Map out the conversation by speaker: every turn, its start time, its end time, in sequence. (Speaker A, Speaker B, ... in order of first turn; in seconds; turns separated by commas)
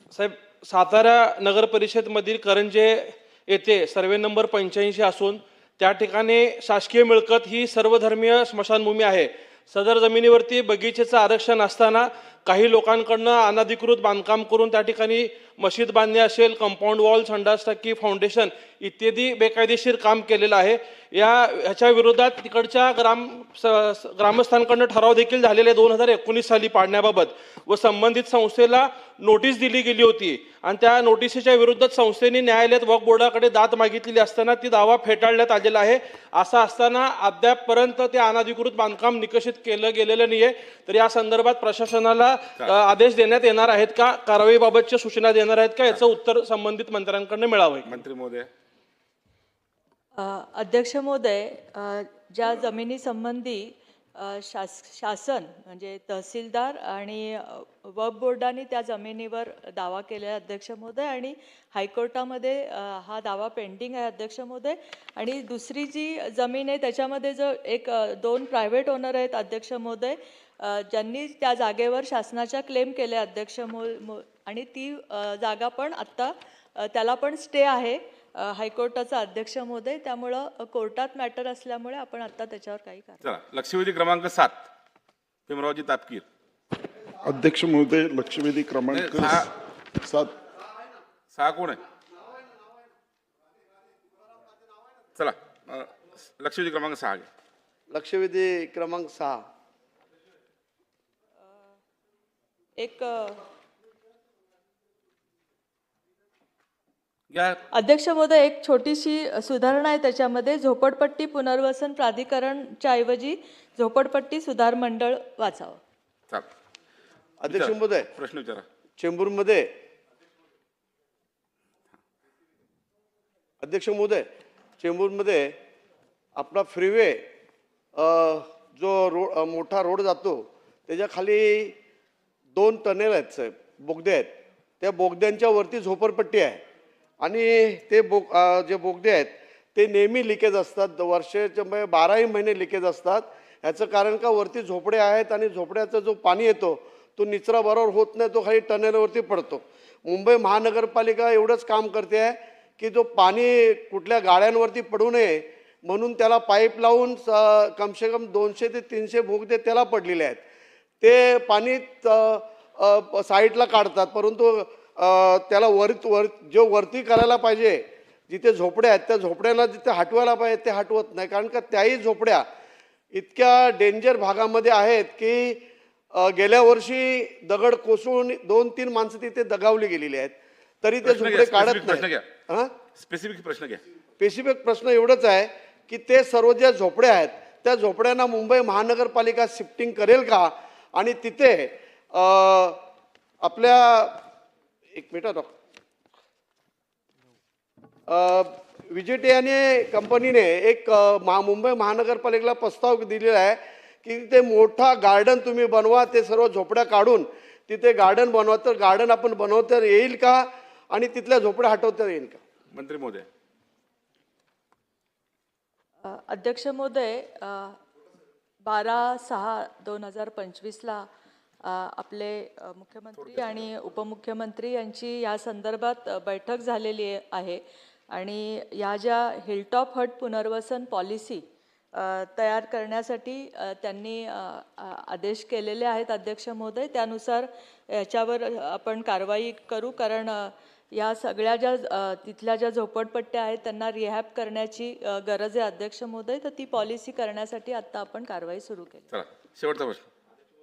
Speaker A: 0.1-47.9, Speaker B: 47.8-48.5, Speaker C: 50.1-83.2, Speaker B: 83.2-84.7, Speaker B: 85.5-86.2, Speaker D: 87.2-89.5, Speaker B: 88.9-89.5, Speaker D: 90.0-90.3, Speaker B: 91.3-91.8, Speaker B: 95.2-97.3, Speaker E: 97.9-99.5, Speaker C: 102.8-103.4, Speaker B: 107.3-107.6, Speaker C: 107.7-115.8, Speaker E: 117.4-118.1, Speaker B: 117.5-118.6, Speaker E: 119.0-119.7, Speaker E: 123.6-125.5, Speaker E: 126.3-127.3, Speaker E: 127.9-131.8, Speaker E: 132.5-136.6, Speaker E: 137.2-160.4, Speaker E: 161.0-172.5, Speaker E: 173.1-182.7, Speaker B: 181.0-182.3, Speaker B: 182.9-183.8, Speaker E: 184.2-192.8, Speaker E: 193.4-194.2, Speaker E: 194.9-195.5, Speaker E: 198.1-212.4, Speaker B: 212.7-213.2, Speaker C: 216.0-217.8, Speaker C: 218.6-221.1, Speaker C: 221.6-249.1, Speaker B: 223.2-223.6, Speaker B: 249.1-250.1